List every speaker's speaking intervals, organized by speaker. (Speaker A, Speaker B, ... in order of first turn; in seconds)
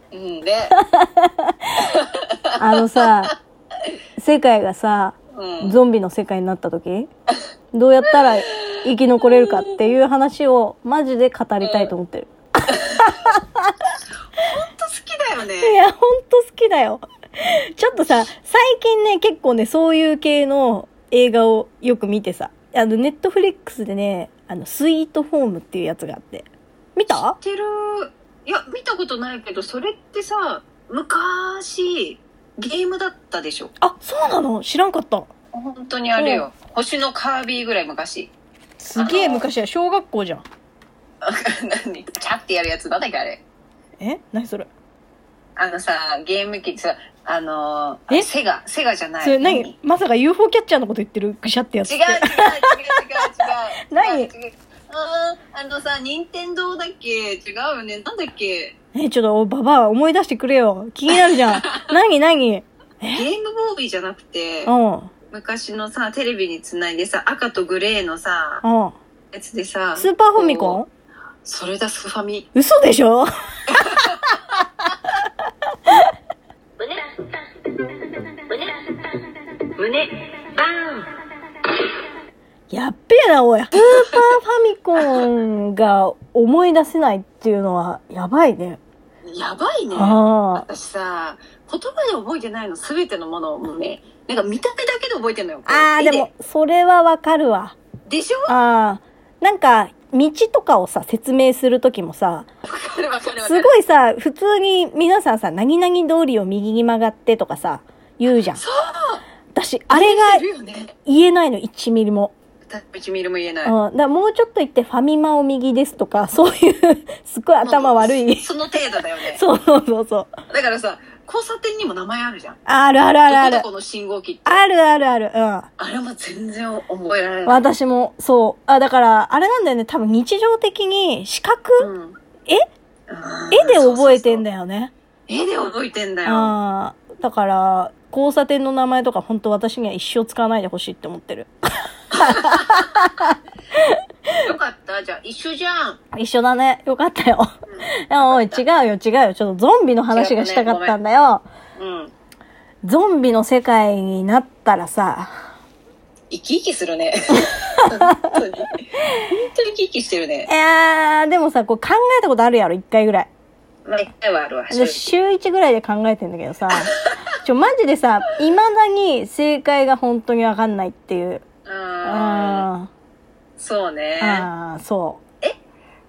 Speaker A: 0.1-0.8, 1.8-3.3, 5.3-5.8, 8.4-8.7, 11.6-11.9, 12.7-13.0, 14.4-15.8, 27.1-33.7, 35.5-38.3, 39.0-39.5, 41.2-43.4, 45.5-49.7, 51.9-58.7, 61.1-61.6, 63.1-64.7, 65.3-68.6, 69.3-70.8, 71.4-72.5, 73.7-74.2, 79.8-81.0, 83.8-84.2, 89.3-96.3, 98.1-98.5, 102.6-103.7, 108.5-109.2, 109.9-110.9, 112.7-113.7, 117.6-119.4, 120.5-122.6, 123.2-124.6, 125.8-127.7, 131.8-132.2, 133.1-134.4, 135.3-136.5, 142.2-142.8, 144.4-146.0, 147.7-148.6, 150.1-150.9, 151.8-152.1, 156.3-160.5, 163.8-165.1, 171.7-172.7, 173.6-174.5
Speaker B: 0.8-1.7, 2.6-3.3, 4.2-7.1, 7.7-13.7, 15.6-27.4, 33.8-35.3, 36.1-36.5, 38.8-40.4, 44.0-44.7, 49.2-53.0, 53.9-54.3, 58.9-63.2, 64.7-65.1, 68.6-68.9, 70.0-70.9, 72.5-73.3, 82.7-88.8, 89.9-90.7, 95.7-97.8, 98.5-102.5, 103.4-108.6, 109.5-110.4, 111.0-112.3, 113.6-118.5, 119.3-120.3, 122.7-123.6, 124.5-125.7, 127.5-131.9, 133.5-134.9, 136.2-143.9, 146.1-151.4, 152.8-155.3, 160.5-163.3, 164.7-171.4, 172.0-172.9, 174.2-175.2